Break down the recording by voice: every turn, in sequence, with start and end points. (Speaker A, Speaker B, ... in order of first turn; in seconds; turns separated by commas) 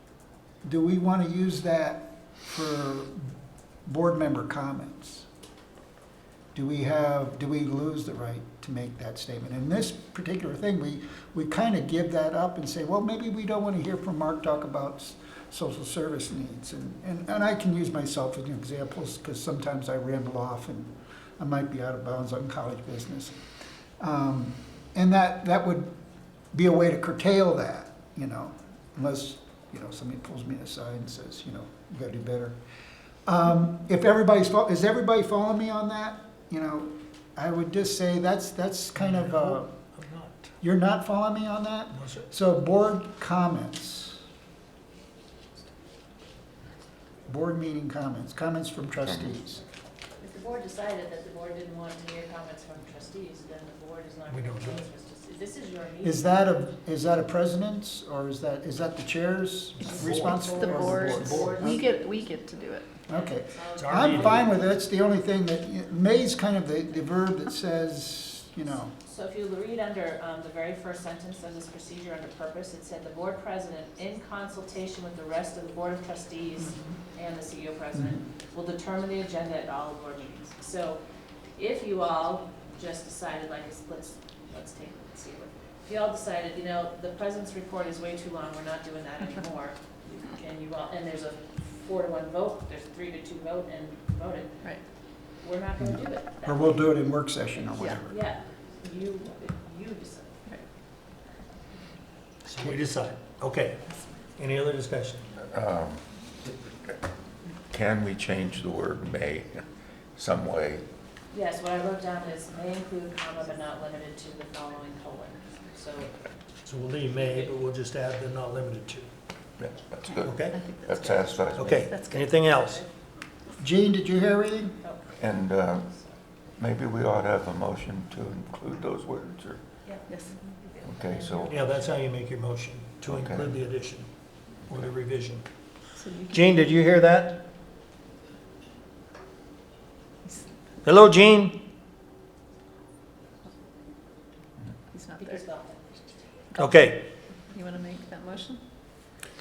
Speaker A: 0.7-3.2, Speaker A: 3.9-5.3, Speaker A: 6.5-23.3, Speaker A: 24.0-25.9, Speaker A: 26.5-32.6, Speaker A: 33.3-39.7, Speaker B: 39.0-40.5, Speaker A: 40.6-44.2, Speaker B: 41.9-42.3, Speaker A: 47.3-49.6, Speaker C: 49.0-49.3, Speaker D: 50.2-56.3, Speaker B: 54.3-54.9, Speaker A: 56.0-61.8, Speaker E: 59.8-62.9, Speaker D: 59.8-62.0, Speaker B: 59.9-61.6, Speaker A: 63.1-68.9, Speaker D: 63.1-64.5, Speaker B: 63.8-64.5, Speaker D: 69.0-81.0, Speaker D: 81.6-94.7, Speaker D: 95.4-97.0, Speaker A: 95.8-98.2, Speaker D: 97.7-100.5, Speaker B: 102.5-103.8, Speaker B: 104.4-105.3, Speaker C: 105.4-106.0, Speaker C: 107.7-109.7, Speaker C: 110.2-110.9, Speaker D: 111.3-116.2, Speaker B: 116.6-119.1, Speaker D: 117.0-117.6, Speaker C: 119.6-122.0, Speaker E: 120.1-122.4, Speaker B: 120.2-120.6, Speaker B: 121.6-122.8, Speaker D: 122.4-122.9, Speaker A: 123.6-124.8, Speaker D: 124.8-125.2, Speaker C: 125.2-125.9, Speaker C: 126.6-129.6, Speaker D: 129.8-132.1, Speaker E: 130.1-130.4, Speaker C: 130.8-131.6, Speaker B: 131.5-134.1, Speaker C: 133.1-133.6, Speaker B: 134.7-135.5, Speaker E: 136.0-136.8, Speaker B: 136.3-137.4, Speaker B: 140.8-141.6, Speaker E: 144.9-145.4, Speaker D: 145.2-146.0, Speaker E: 146.5-146.8, Speaker B: 146.6-147.0, Speaker E: 147.5-148.6